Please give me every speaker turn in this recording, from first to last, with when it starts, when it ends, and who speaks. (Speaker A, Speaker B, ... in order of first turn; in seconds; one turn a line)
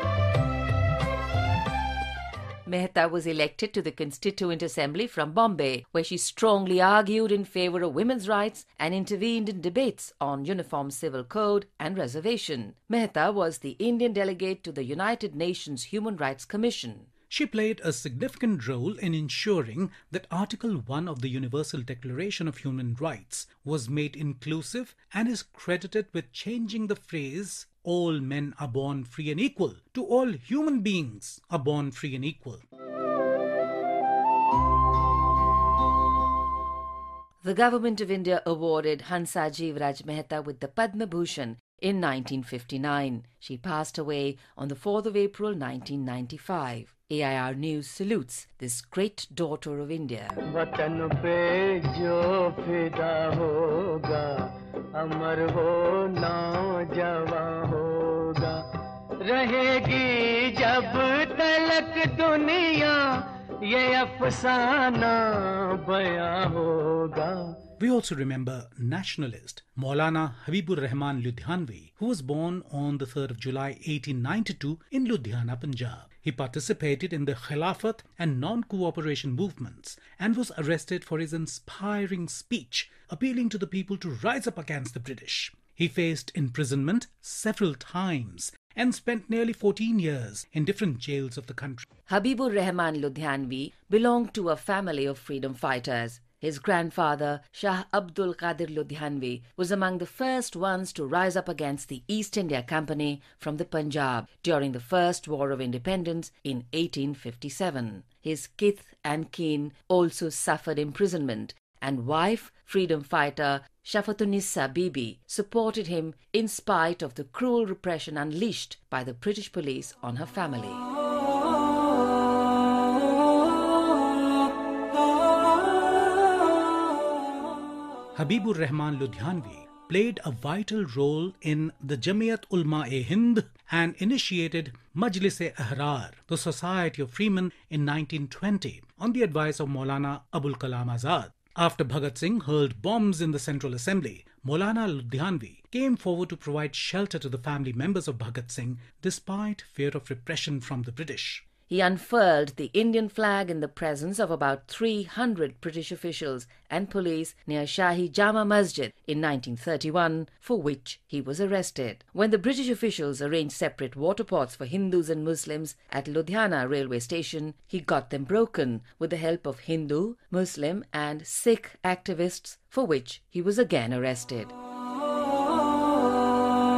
Speaker A: 2.6-17.1
Speaker B: 17.3-32.6
Speaker A: 37.4-50.4
Speaker C: 50.6-58.6
Speaker C: 59.2-67.5
Speaker B: 67.8-91.8
Speaker A: 92.1-120.8
Speaker B: 128.2-151.4
Speaker A: 151.7-174.5